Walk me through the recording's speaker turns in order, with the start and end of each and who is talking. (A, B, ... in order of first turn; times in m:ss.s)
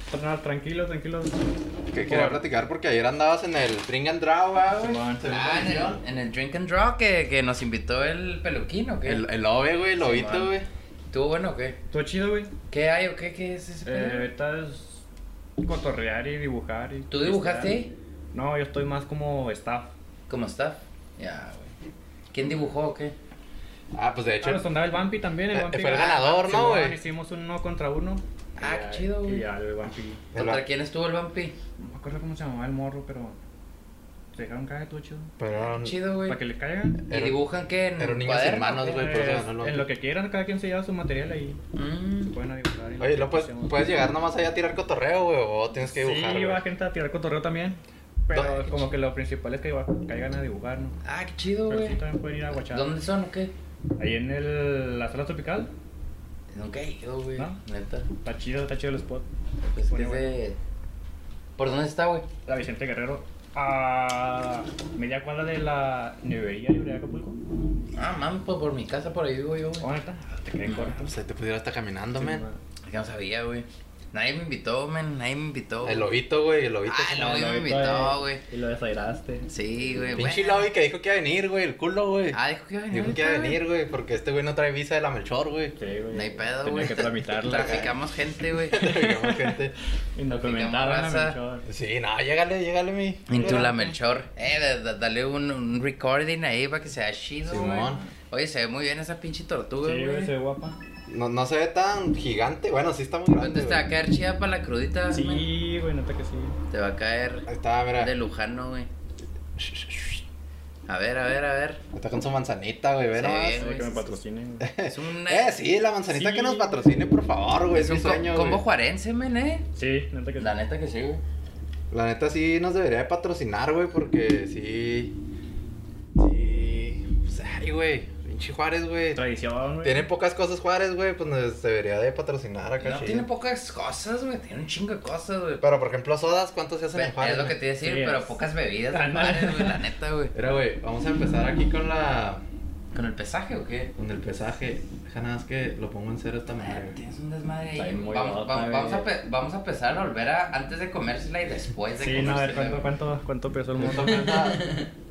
0:00.1-0:01.4 A
0:01.9-0:06.0 B
0:02.0-0:02.4 A
0:04.7-0:05.9 A
0:05.2-0:09.3 C
0:09.0-0:10.7 B
0:10.0-0:10.5 C
0:11.1-0:11.8 C
0:11.9-0:12.5 A
0:12.7-0:14.3 C
0:13.8-0:15.0 A
0:15.6-0:17.8 A
0:17.1-0:17.9 C
0:18.3-0:19.9 A
0:20.3-0:21.7 C
0:22.3-0:23.1 C
0:23.9-0:24.7 B
0:24.4-0:30.2 A
0:25.5-0:27.0 B
0:28.6-0:29.4 C
0:30.3-0:30.6 B
0:30.3-0:31.5 C
0:31.8-0:33.4 A
0:34.3-0:35.3 A
0:35.4-0:36.0 B
0:35.7-0:36.4 C
0:36.2-0:37.0 A
0:37.1-0:37.4 B
0:37.1-0:38.9 C
0:38.0-0:39.9 B
0:38.8-0:41.6 A
0:41.7-0:42.3 C
0:42.3-0:43.9 A
0:43.0-0:46.6 B
0:45.9-0:51.0 A
0:48.3-0:48.8 B
0:51.0-0:52.0 C
0:51.7-0:52.9 A
0:52.5-0:53.5 C
0:54.0-0:55.7 A
0:56.5-0:58.1 C
0:58.2-0:59.3 A
0:59.6-1:00.6 C
0:59.9-1:00.3 A
1:01.6-1:02.2 C
1:02.4-1:07.4 A
1:07.9-1:09.9 C
1:09.8-1:11.1 A
1:10.8-1:12.4 B
1:12.1-1:12.6 A
1:12.8-1:16.1 C
1:15.8-1:17.4 B
1:16.8-1:18.4 C
1:17.1-1:19.5 A
1:19.5-1:20.7 C
1:20.2-1:22.4 B
1:22.3-1:23.6 C
1:22.9-1:25.8 B
1:25.8-1:27.9 A
1:26.1-1:29.0 C
1:27.5-1:27.8 B
1:28.7-1:29.7 B
1:30.2-1:31.6 A
1:30.4-1:31.4 C
1:31.6-1:33.6 B
1:33.3-1:40.3 C
1:33.3-1:34.0 A
1:37.5-1:38.0 B
1:37.8-1:38.1 A
1:39.8-1:40.8 A
1:41.1-1:43.8 B
1:43.3-1:45.4 C
1:45.1-1:46.6 A
1:46.7-1:47.5 C
1:47.5-1:48.1 B
1:48.0-1:48.9 C
1:49.6-1:50.2 B
1:50.9-1:51.8 C
1:51.9-1:53.7 B
1:53.1-1:53.9 C
1:53.5-1:54.7 A
1:54.6-1:58.6 B
1:54.8-1:55.6 C
1:56.1-1:56.8 A
1:57.7-1:59.6 C
1:59.7-2:00.5 A
2:00.4-2:01.2 C
2:01.9-2:05.1 B
2:06.2-2:09.2 B
2:09.1-2:10.1 A
2:09.8-2:13.3 B
2:12.8-2:15.6 C
2:15.6-2:17.6 B
2:16.9-2:20.3 C
2:17.8-2:18.4 A
2:18.9-2:19.8 A
2:20.3-2:22.4 B
2:22.9-2:23.9 C
2:24.0-2:27.0 B
2:26.6-2:32.8 C
2:27.8-2:29.1 A
2:32.0-2:34.6 A
2:33.7-2:34.7 B
2:34.5-2:34.9 C